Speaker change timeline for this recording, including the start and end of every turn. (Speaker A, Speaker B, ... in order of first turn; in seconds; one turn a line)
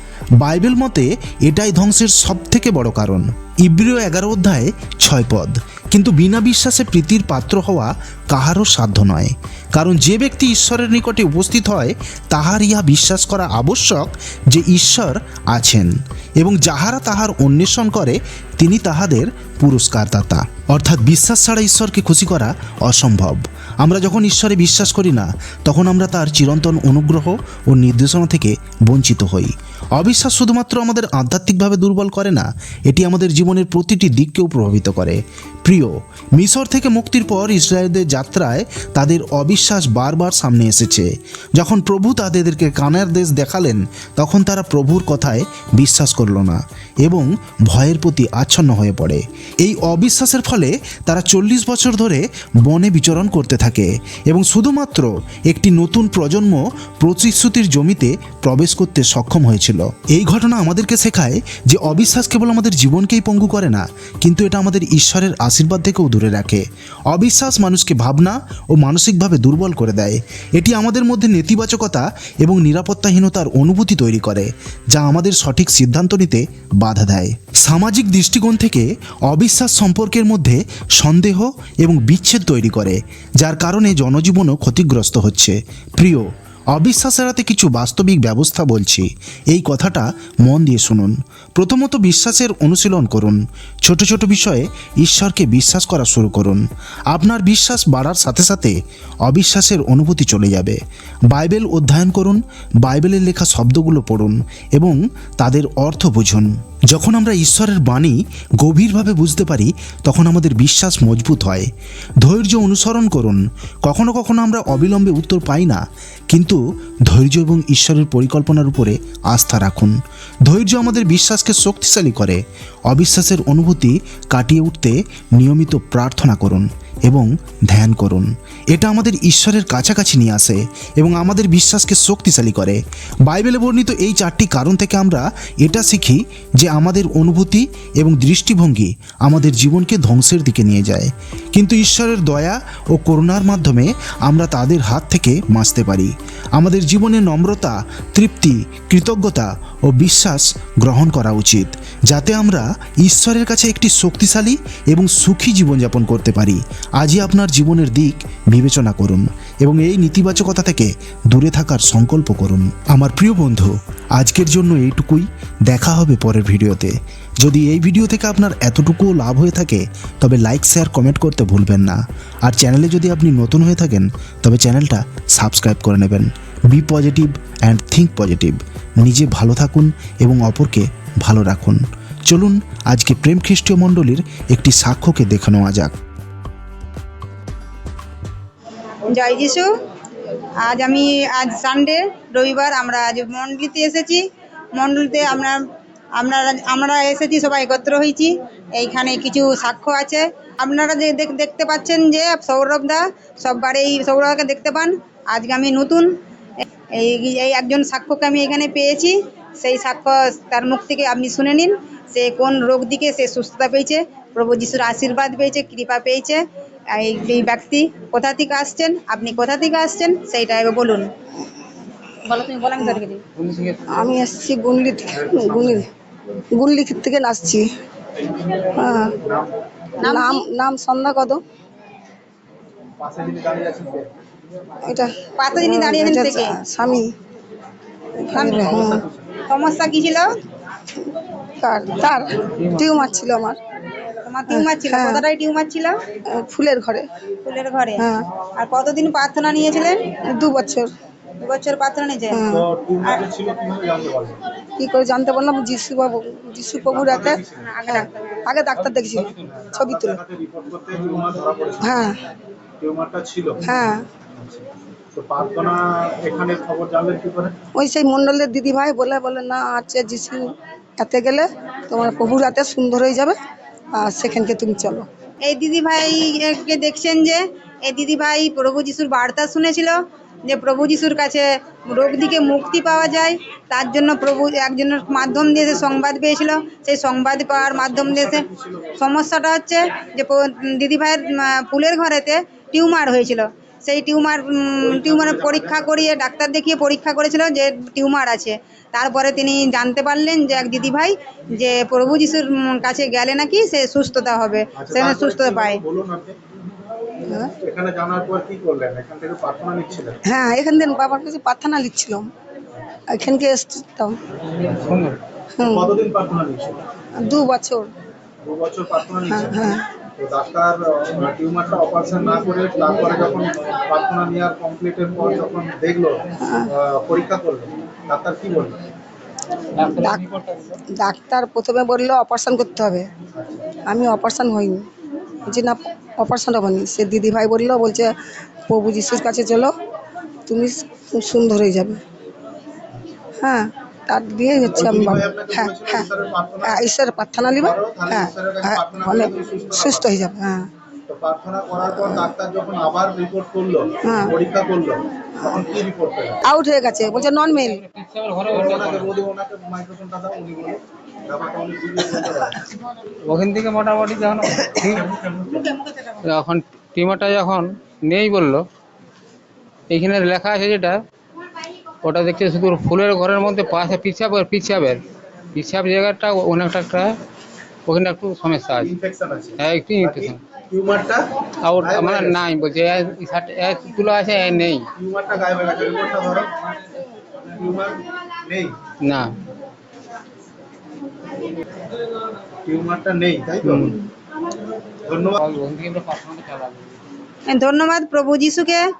Speaker A: 0.4-111.7
Speaker A: 112.2-119.9
Speaker A: 120.5-185.9
Speaker B: 189.1-189.7
Speaker B: 190.6-194.2
Speaker B: 194.8-195.6
Speaker B: 196.2-206.1
Speaker B: 207.0-216.4
Speaker B: 216.9-221.1
Speaker B: 222.2-223.2
Speaker C: 223.3-223.8
Speaker D: 223.9-225.9
Speaker E: 225.1-225.8
Speaker D: 226.6-227.7
Speaker D: 228.8-229.2
Speaker E: 229.2-229.6
Speaker B: 230.0-230.4
Speaker D: 230.0-231.4
Speaker E: 233.0-234.1
Speaker D: 234.9-237.1
Speaker B: 235.4-236.6
Speaker D: 238.2-239.0
Speaker B: 238.4-238.7
Speaker E: 238.4-239.2
Speaker B: 239.5-240.3
Speaker D: 241.6-243.6
Speaker C: 242.5-242.9
Speaker B: 244.2-246.0
Speaker D: 244.5-245.2
Speaker D: 246.3-247.1
Speaker B: 247.4-250.1
Speaker D: 248.0-248.3
Speaker D: 250.3-250.9
Speaker B: 251.4-252.4
Speaker D: 252.3-252.7
Speaker E: 252.5-254.4
Speaker D: 254.8-260.2
Speaker E: 256.9-257.8
Speaker B: 257.6-258.1
Speaker E: 259.1-262.0
Speaker D: 261.8-262.2
Speaker E: 262.8-263.6
Speaker D: 263.6-264.1
Speaker E: 264.3-267.6
Speaker D: 267.8-273.4
Speaker D: 273.9-275.1
Speaker B: 275.4-288.4
Speaker E: 287.5-289.0
Speaker B: 289.0-305.8
Speaker E: 294.8-296.1
Speaker E: 304.8-306.4
Speaker D: 307.3-307.5
Speaker E: 307.6-310.2
Speaker D: 310.3-312.3
Speaker D: 313.1-314.2
Speaker C: 314.7-315.2
Speaker D: 315.6-316.0
Speaker E: 315.7-316.8
Speaker D: 317.2-317.9
Speaker E: 318.4-319.7
Speaker D: 319.3-319.8
Speaker E: 320.2-328.8
Speaker D: 326.4-326.7
Speaker C: 329.8-330.8
Speaker D: 330.0-330.2
Speaker D: 330.9-333.1
Speaker E: 333.4-333.7
Speaker D: 333.8-334.9
Speaker D: 335.4-338.1
Speaker D: 338.7-339.7
Speaker D: 340.5-342.0
Speaker D: 343.4-346.1
Speaker E: 344.7-346.8
Speaker D: 346.6-350.7
Speaker E: 347.6-350.2
Speaker E: 351.1-356.4
Speaker D: 351.9-352.3
Speaker D: 354.1-354.4
Speaker D: 355.4-355.7
Speaker D: 356.5-357.8
Speaker C: 357.7-359.1
Speaker E: 358.5-362.6
Speaker C: 363.3-365.2
Speaker C: 366.0-368.7
Speaker C: 369.9-371.0
Speaker C: 372.0-375.0
Speaker C: 375.5-377.2
Speaker C: 377.9-378.9
Speaker E: 378.8-381.2
Speaker C: 379.6-380.4
Speaker C: 381.6-384.9
Speaker E: 381.8-382.4
Speaker E: 385.0-386.5
Speaker E: 387.5-388.8
Speaker C: 389.0-389.3
Speaker E: 392.7-394.0
Speaker C: 393.6-394.0
Speaker E: 395.1-395.4
Speaker C: 395.4-397.0
Speaker B: 397.5-398.9